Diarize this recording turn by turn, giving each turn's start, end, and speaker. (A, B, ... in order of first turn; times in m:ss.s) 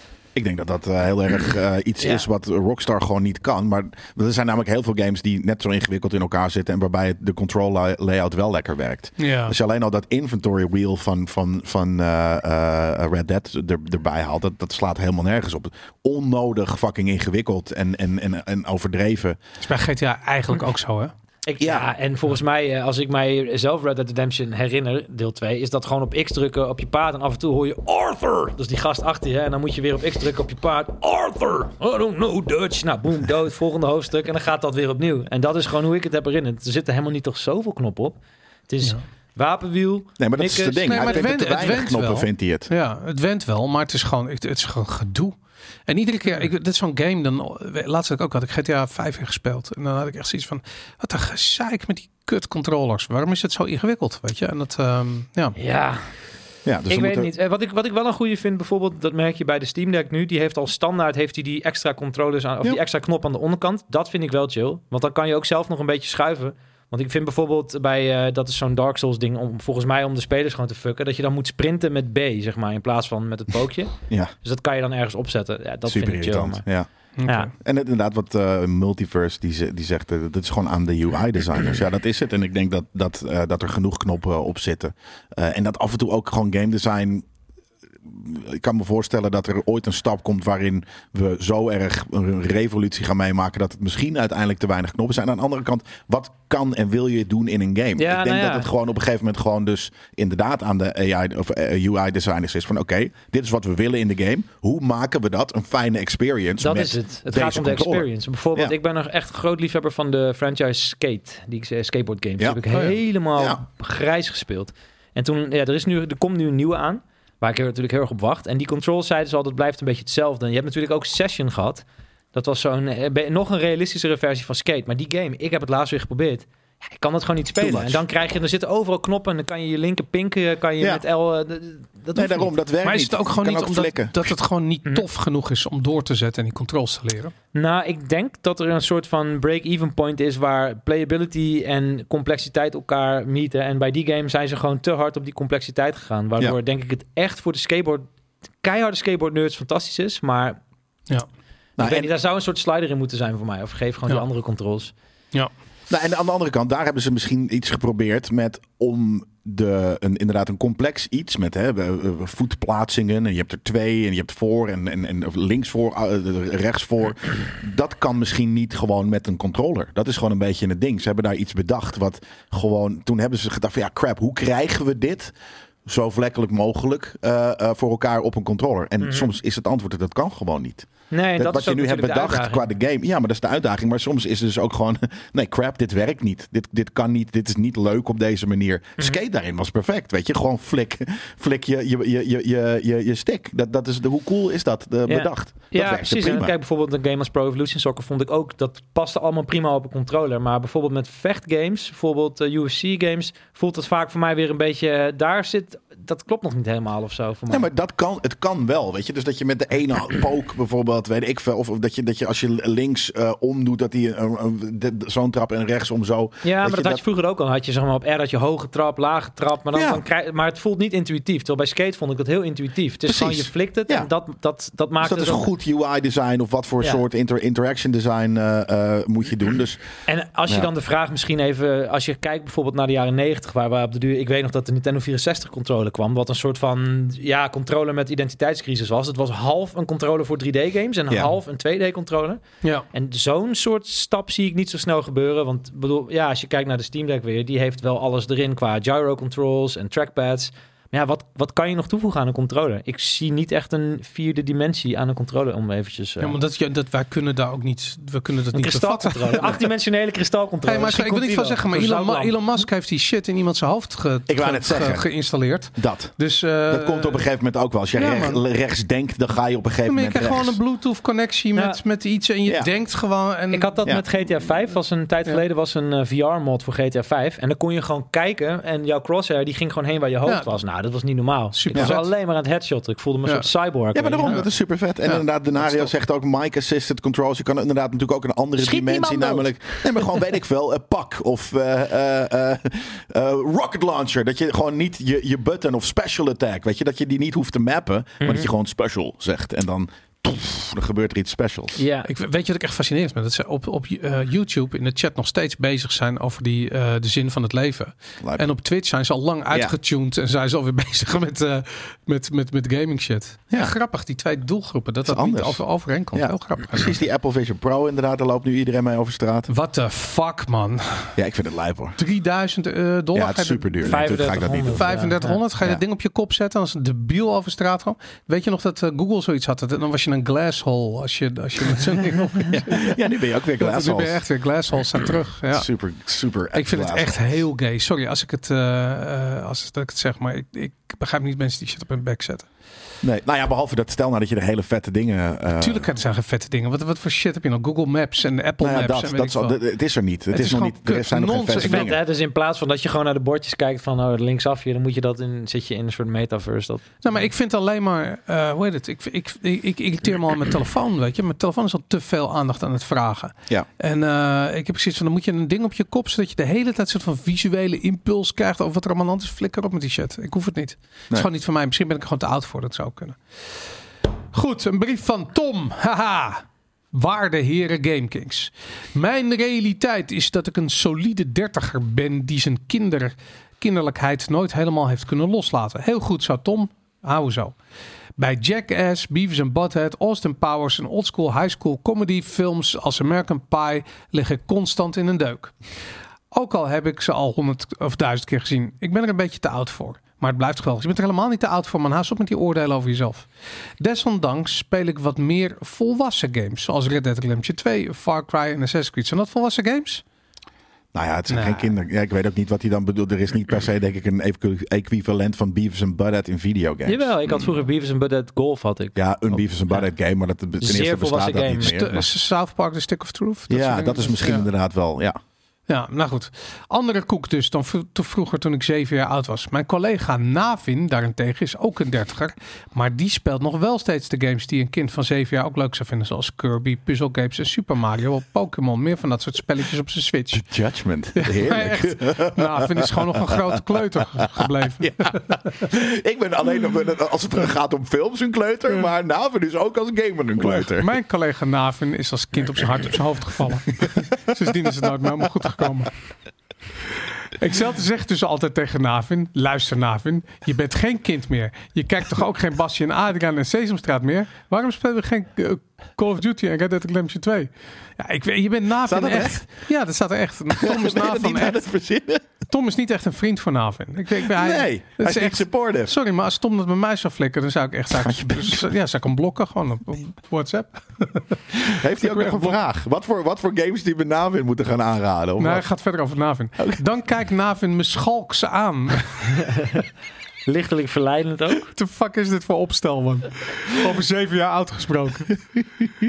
0:00.4-0:19.4 A
0:02.0-0:02.3 B
0:09.2-0:09.6 C
0:19.6-0:21.1 C
0:21.5-0:38.2 B
0:21.6-0:21.9 A
0:38.7-0:41.6 B
0:40.2-0:42.7 A
0:40.8-0:45.4 C
0:45.9-0:55.6 C
0:55.6-0:56.0 B
0:56.7-0:57.3 A
0:56.9-1:16.6 B
1:15.9-1:16.9 A
1:17.2-1:17.5 C
1:17.3-1:17.5 B
1:17.6-1:27.3 A
1:28.1-1:48.7 A
1:38.0-1:38.7 B
1:46.6-2:12.5 B
1:53.4-1:53.6 A
2:07.6-2:08.0 A
2:12.1-2:14.3 A
2:12.8-2:17.3 C
2:17.5-2:28.1 B
2:28.6-2:30.6 B
2:31.8-2:32.1 A
2:31.8-2:34.9 B
2:35.9-2:55.3 A
2:55.9-3:16.5 A
2:59.0-2:59.3 B
3:01.1-3:02.7 B
3:15.1-3:27.7 B
3:27.5-3:37.0 A
3:36.4-3:45.5 B
3:39.8-3:40.0 A
3:43.1-3:44.1 A
3:45.0-3:49.8 A
3:50.1-4:02.4 B
4:02.9-4:16.4 B
4:16.2-4:19.6 C
4:18.5-4:22.7 B
4:20.6-4:27.3 C
4:24.3-4:25.1 A
4:25.8-4:26.1 A
4:26.7-4:30.6 A
4:28.0-4:28.4 C
4:29.9-4:33.8 C
4:33.5-4:44.4 B
4:41.5-4:42.1 C
4:43.9-5:01.8 A
4:48.6-4:50.1 B
4:58.2-4:58.5 B
5:01.8-5:02.1 B
5:02.0-5:17.0 C
5:08.2-5:08.5 A
5:15.0-5:19.5 A
5:19.5-5:21.2 C
5:21.2-5:22.0 A
5:22.0-5:24.0 C
5:23.1-5:25.0 A
5:23.8-5:25.4 B
5:24.7-5:33.0 C
5:32.5-5:34.2 A
5:33.6-5:35.7 C
5:35.5-5:37.4 A
5:36.5-5:42.5 C
5:43.0-5:45.9 A
5:45.6-5:49.6 C
5:48.6-5:52.0 A
5:50.3-5:51.9 C
5:51.6-5:56.9 B
5:57.0-6:13.2 C
6:14.3-6:27.6 C
6:28.2-6:35.5 C
6:36.3-6:43.3 C
6:43.8-6:50.0 C
6:50.9-6:57.1 A
6:51.3-6:51.7 C
6:56.9-6:59.0 B
6:59.0-7:02.1 A
7:00.6-7:01.8 B
7:01.6-7:04.5 C
7:03.5-7:05.2 A
7:05.7-7:20.5 C
7:20.3-7:30.9 A
7:21.2-7:25.4 C
7:30.4-7:35.9 C
7:37.4-7:51.6 C
7:48.9-7:49.4 A
7:50.6-7:52.3 A
7:52.5-8:01.4 C
7:54.2-7:55.9 A
7:58.0-7:58.7 A
8:01.6-8:05.6 A
8:02.0-8:02.6 C
8:05.4-8:09.5 C
8:09.4-8:09.8 B
8:10.5-8:11.7 B
8:11.7-8:15.5 C